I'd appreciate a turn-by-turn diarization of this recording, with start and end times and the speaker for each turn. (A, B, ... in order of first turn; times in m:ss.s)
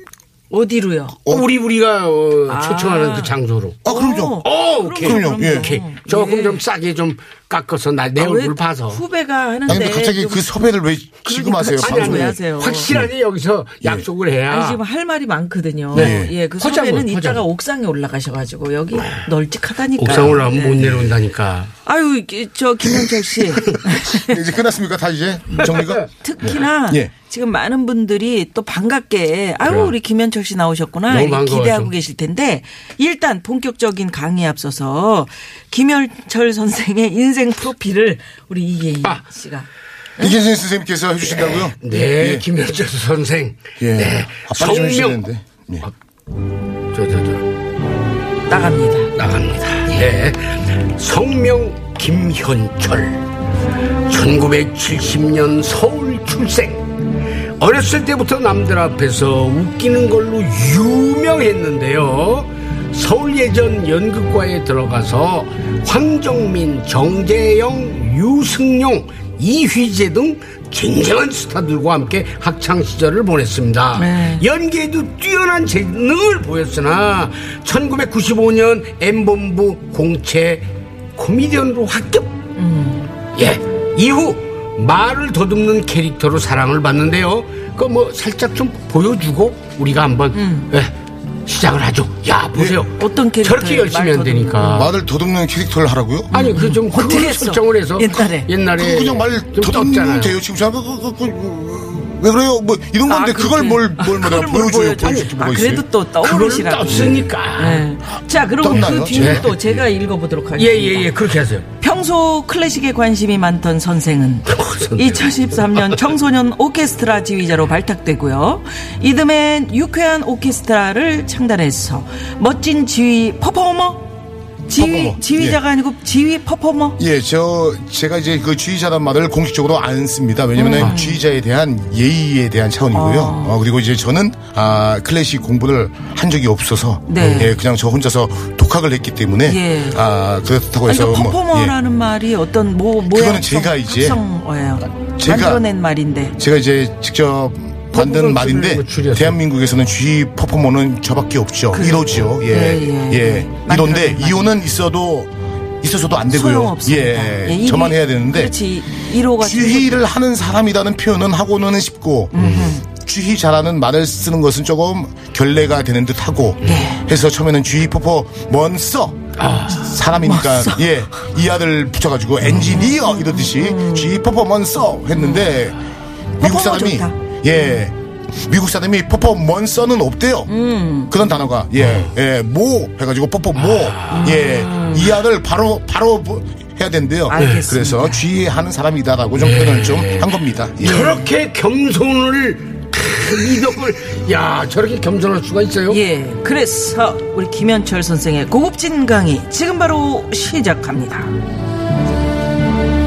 0:00.5-0:01.3 A
0:01.3-0:03.8 B
0:02.5-0:06.6 A
0:03.8-0:04.4 C
0:04.4-0:09.0 B
0:05.0-0:05.8 C
0:08.2-0:10.5 A
0:09.7-0:12.4 C
0:11.3-0:12.9 A
0:11.8-0:14.8 B
0:14.5-0:20.9 A
0:15.9-0:17.4 B
0:15.9-0:16.3 C
0:20.0-0:21.7 B
0:20.8-0:21.1 C
0:21.8-0:24.4 A
0:24.1-0:27.1 C
0:25.6-0:26.0 B
0:26.2-0:40.3 A
0:29.6-0:29.9 B
0:31.1-0:31.9 B
0:40.2-0:42.5 C
0:41.2-0:45.2 B
0:43.8-0:45.9 C
0:46.9-0:47.4 B
0:48.5-0:49.1 A
0:49.2-0:53.3 B
0:54.1-0:57.0 B
0:57.6-1:22.3 B
1:14.0-1:14.4 A
1:22.6-1:23.1 A
1:23.4-1:30.9 B
1:30.3-1:30.7 A
1:31.5-1:34.9 B
1:32.5-1:32.8 C
1:33.0-1:34.9 A
1:34.7-1:36.3 C
1:36.3-1:38.5 A
1:36.3-1:40.4 B
1:38.8-1:45.8 C
1:43.1-1:51.1 A
1:46.2-1:47.9 B
1:46.9-1:47.2 C
1:48.6-1:49.8 C
1:48.7-1:49.5 B
1:50.6-1:51.7 B
1:51.8-2:04.1 A
1:54.5-1:56.0 B
2:04.7-2:07.0 A
2:04.8-2:05.6 C
2:07.0-2:21.8 C
2:10.6-2:11.2 A
2:12.9-2:13.6 A
2:17.1-2:17.6 A
2:17.2-2:17.5 B
2:19.5-2:20.0 A
2:20.9-2:26.4 A
2:23.1-2:24.2 C
2:25.2-2:25.6 C
2:26.4-2:38.6 C
2:27.9-2:29.4 B
2:31.7-2:34.5 A
2:36.3-2:40.0 A
2:39.4-2:55.8 C
2:42.3-2:42.8 A
2:42.4-2:42.7 B
2:46.6-2:47.0 A
2:49.4-2:49.9 B
2:50.1-2:50.9 A
2:52.7-2:54.2 A
2:55.2-2:55.5 A
2:56.4-3:00.5 C
2:56.4-2:57.2 A
3:00.5-3:01.2 A
3:01.1-3:11.2 C
3:01.8-3:02.1 B
3:03.6-3:04.5 B
3:04.1-3:05.1 A
3:07.3-3:08.2 A
3:07.4-3:07.6 B
3:09.4-3:16.0 B
3:15.9-3:21.4 A